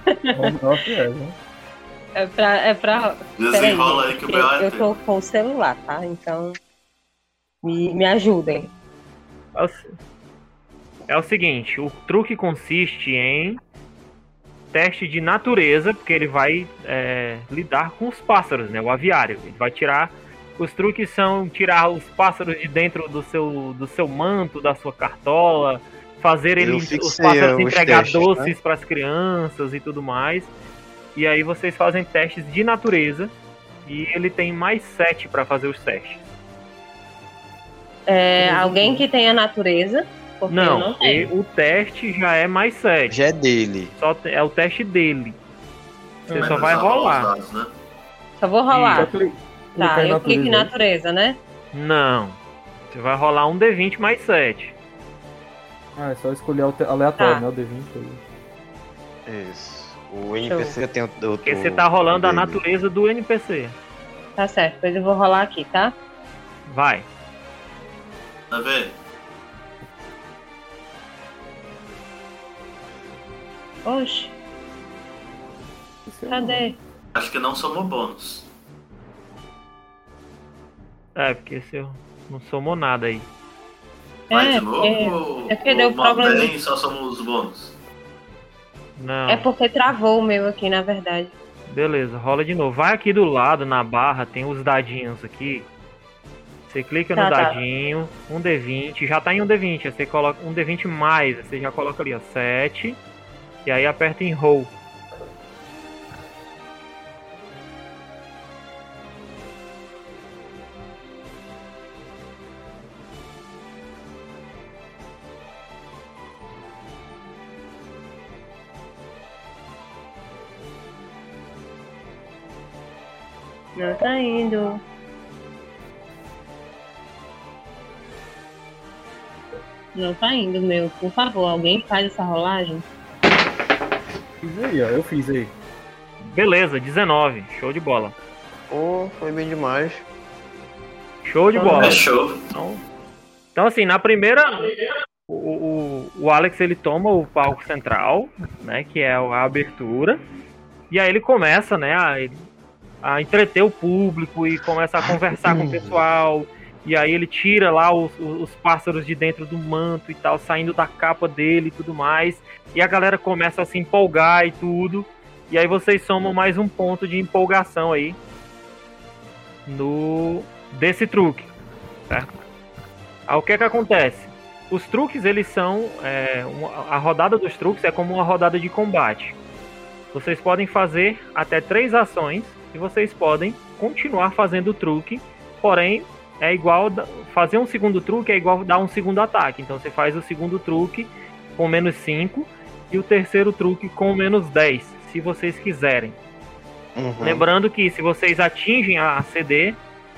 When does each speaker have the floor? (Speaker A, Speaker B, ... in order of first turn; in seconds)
Speaker A: 0.3-1.4, 38.4-39.1, 49.0-50.7, 56.0-58.2, 76.1-76.7, 134.4-135.5
Speaker B: 2.2-6.6, 7.6-8.7, 38.1-41.3, 48.4-49.1, 49.8-51.4, 57.2-57.4, 60.4-60.8, 64.4-65.9, 73.8-74.3, 76.3-76.8, 84.3-86.5, 89.3-91.3, 97.2-97.5, 123.8-124.8, 129.9-132.8, 141.5-142.1
Speaker C: 3.4-5.0, 46.4-47.7, 68.5-69.0, 77.1-78.5, 84.3-87.8, 141.7-142.4
Speaker D: 9.6-9.9, 11.1-13.6, 14.7-30.5, 31.1-33.3, 33.9-36.2, 40.5-43.2, 44.0-45.4, 46.3-47.3, 48.7-49.1, 51.7-52.4, 52.9-54.7, 61.4-63.8, 66.7-67.1, 81.2-83.3, 89.0-89.5, 91.7-95.7, 96.7-103.0, 103.7-104.7, 136.2-138.1, 141.2-142.8, 143.6-150.2, 150.9-152.4, 153.0-168.2, 169.7-171.5, 172.1-172.3, 173.3-179.4, 180.1-196.2, 197.2-199.8
Speaker E: 26.6-28.6, 43.1-43.9, 59.3-62.6, 138.7-140.0, 155.4-156.0, 197.0-197.5